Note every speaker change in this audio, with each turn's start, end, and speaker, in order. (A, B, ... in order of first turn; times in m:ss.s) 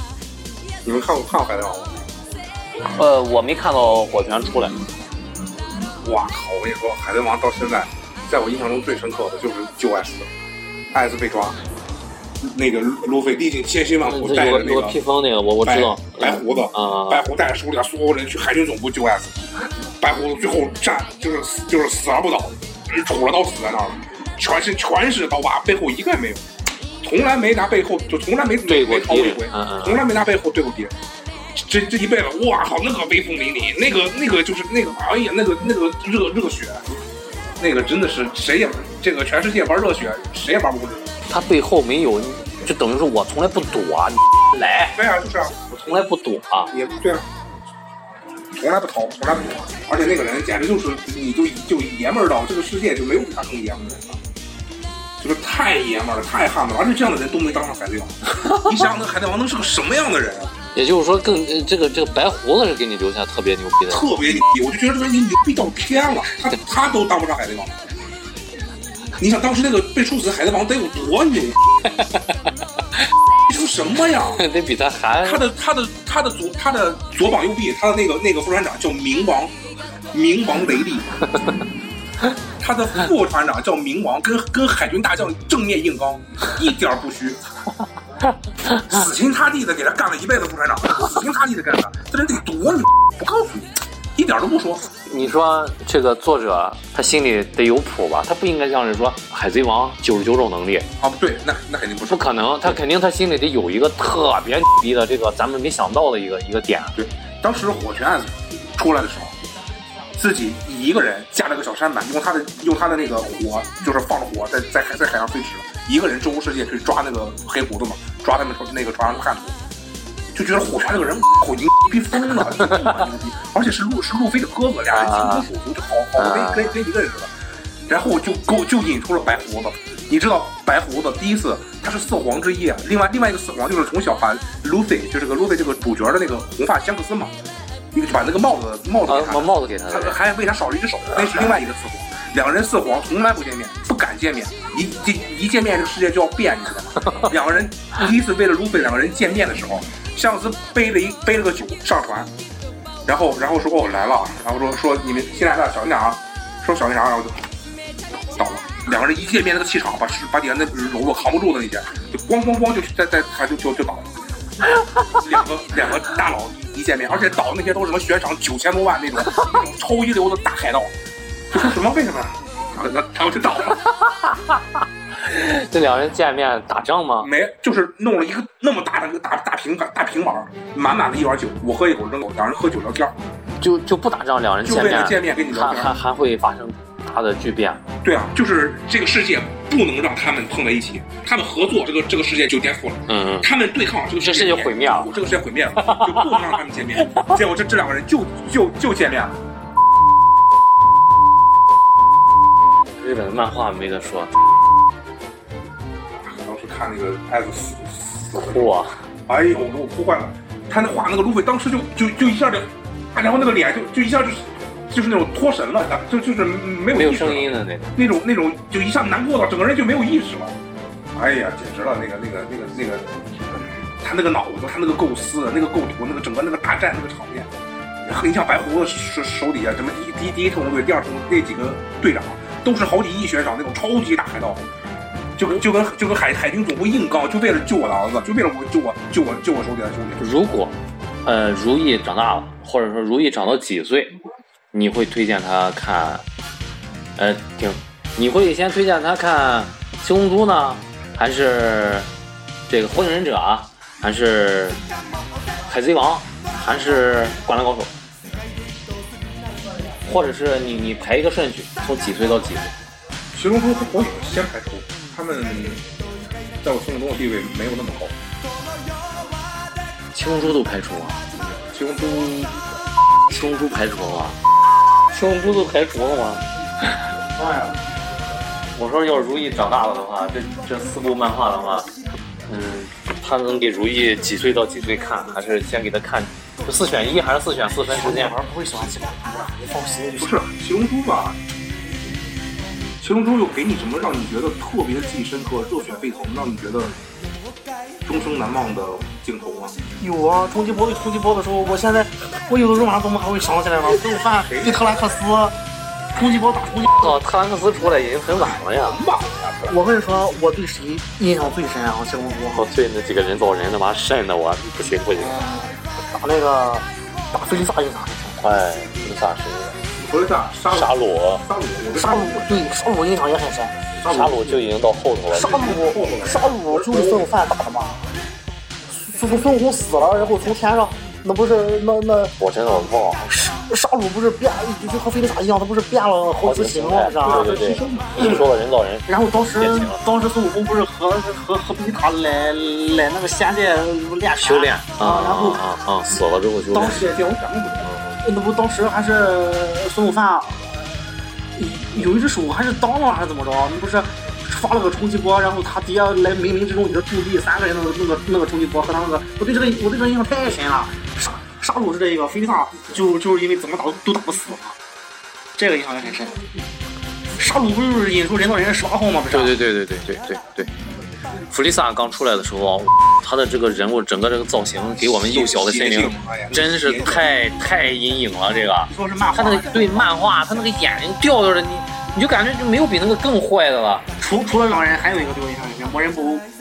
0:00.8-0:02.0 A
0:02.9-0:04.8 B
0:06.0-0:10.3 A
0:10.9-0:11.6 A
0:12.4-0:15.0 A
0:14.0-0:17.2 B
0:15.6-0:19.4 A
0:20.0-0:26.4 A
0:27.0-0:31.0 A
0:28.6-0:30.1 B
0:31.6-0:36.9 A
0:37.6-0:41.2 A
0:41.3-0:45.0 B
0:44.8-0:45.6 A
0:45.7-0:46.7 B
0:46.7-0:47.3 A
0:48.5-0:54.2 A
0:55.2-1:00.5 A
1:00.8-1:04.1 B
1:03.9-1:07.8 A
1:09.2-1:11.6 A
1:11.9-1:12.4 B
1:13.5-1:14.4 A
1:14.2-1:15.5 B
1:15.2-1:19.5 A
1:20.1-1:21.3 A
1:22.6-1:27.4 A
1:28.8-1:34.9 A
1:35.1-1:40.9 B
1:41.0-1:42.8 A
1:42.0-1:47.0 B
1:47.0-1:49.4 A
1:50.2-1:59.6 A
2:00.3-2:07.3 A
2:02.4-2:02.9 B
2:04.9-2:05.5 B
2:06.2-2:06.8 B
2:07.9-2:17.4 A
2:17.9-2:32.3 A
2:19.1-2:20.2 B
2:33.1-2:37.4 A
2:38.4-2:44.1 A
2:45.2-2:50.9 A
2:51.5-2:53.8 A
2:53.8-2:54.6 B
2:55.2-2:57.3 B
2:57.2-3:03.2 A
3:03.6-3:07.8 B
3:04.6-3:06.0 A
3:08.0-3:19.4 A
3:13.1-3:13.5 B
3:14.1-3:15.1 B
3:15.9-3:16.4 B
3:23.0-3:24.3 B
3:26.2-3:28.7 A
3:28.4-3:29.0 B
3:29.3-3:40.6 A
3:36.9-3:38.0 B
3:41.2-3:47.5 A
3:48.0-3:54.7 A
3:55.4-4:00.2 A
4:00.2-4:04.2 B
4:04.7-4:06.2 B
4:07.2-4:12.1 B
4:12.7-4:14.8 B
4:15.7-4:17.9 B
4:20.0-4:22.7 B
4:23.3-4:25.8 A
4:26.6-4:28.2 A
4:30.1-4:31.2 B
4:31.5-4:32.6 A
4:33.3-4:34.4 B
4:35.1-4:36.5 B
4:37.4-4:37.8 C
4:38.8-4:41.9 B
4:42.5-4:48.4 B
4:47.8-4:50.4 C
4:50.2-4:51.4 A
4:53.0-4:57.0 A
4:58.0-4:59.8 A
5:00.0-5:05.6 C
5:04.4-5:05.0 A
5:06.2-5:07.2 C
5:06.9-5:09.0 B
5:08.3-5:09.8 A
5:09.7-5:12.7 C
5:12.5-5:15.4 B
5:15.2-5:15.7 A
5:16.1-5:18.4 C
5:18.4-5:19.8 B
5:20.0-5:22.8 A
5:20.7-5:21.4 B
5:21.9-5:23.8 C
5:24.0-5:24.7 A
5:24.0-5:25.7 B
5:25.3-5:28.0 C
5:25.3-5:27.3 A
5:28.9-5:32.4 C
5:32.4-5:33.2 B
5:33.2-5:37.8 C
5:36.4-5:40.0 B
5:37.2-5:38.5 A
5:39.1-5:45.6 C
5:44.4-5:47.1 B
5:46.7-5:47.2 C
5:46.8-5:48.0 A
5:48.2-6:04.8 C
6:05.6-6:06.4 C
6:07.4-6:09.6 C
6:09.3-6:10.7 B
6:11.5-6:24.1 B
6:15.0-6:17.3 A
6:18.9-6:20.2 C
6:24.2-6:26.5 C